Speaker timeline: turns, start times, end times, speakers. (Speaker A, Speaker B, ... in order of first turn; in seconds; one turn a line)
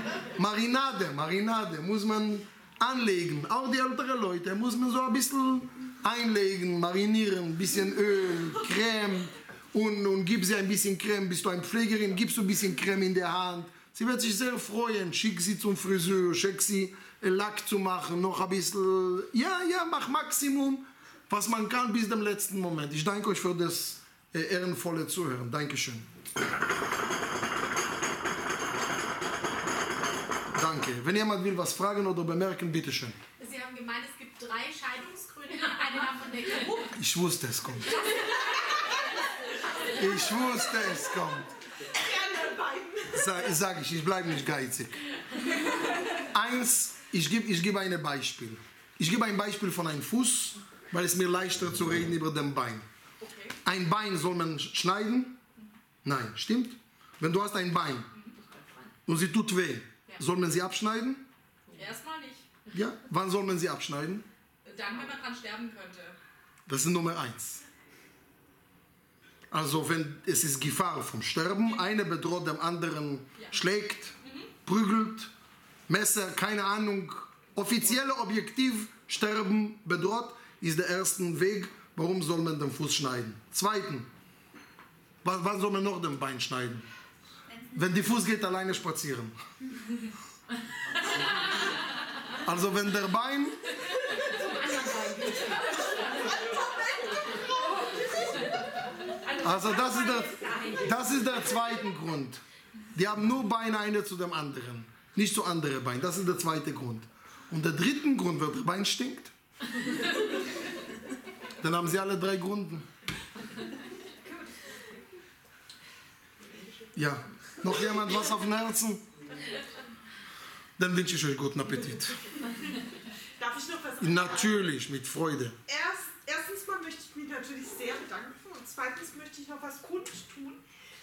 Speaker A: 0.3-26.1
Speaker A: 30.5-33.2
Speaker B: 33.4-37.0
Speaker A: 37.0-38.0
Speaker B: 37.9-38.9
Speaker A: 39.9-41.5
Speaker C: 41.9-43.5
Speaker A: 43.1-45.0
Speaker A: 46.1-52.9
Speaker D: 53.2-53.6
Speaker A: 53.6-55.4
Speaker A: 56.0-58.1
Speaker B: 58.4-58.9
Speaker A: 59.1-61.2
Speaker D: 61.7-62.5
Speaker A: 62.7-64.3
Speaker D: 64.7-66.2
Speaker A: 66.7-67.6
Speaker A: 69.5-75.3
Speaker D: 74.2-74.5
Speaker A: 75.9-84.1
Speaker A: 85.2-86.9
Speaker A: 87.7-89.4
Speaker A: 92.4-93.6
Speaker B: 94.0-96.5
Speaker B: 98.1-98.5
Speaker B: 99.2-101.4
Speaker A: 99.4-102.4
Speaker A: 103.0-109.3
Speaker A: 111.6-112.9
Speaker A: 117.0-119.1
Speaker A: 120.8-122.3
Speaker C: 123.4-124.7
Speaker A: 124.0-125.6
Speaker C: 125.7-130.6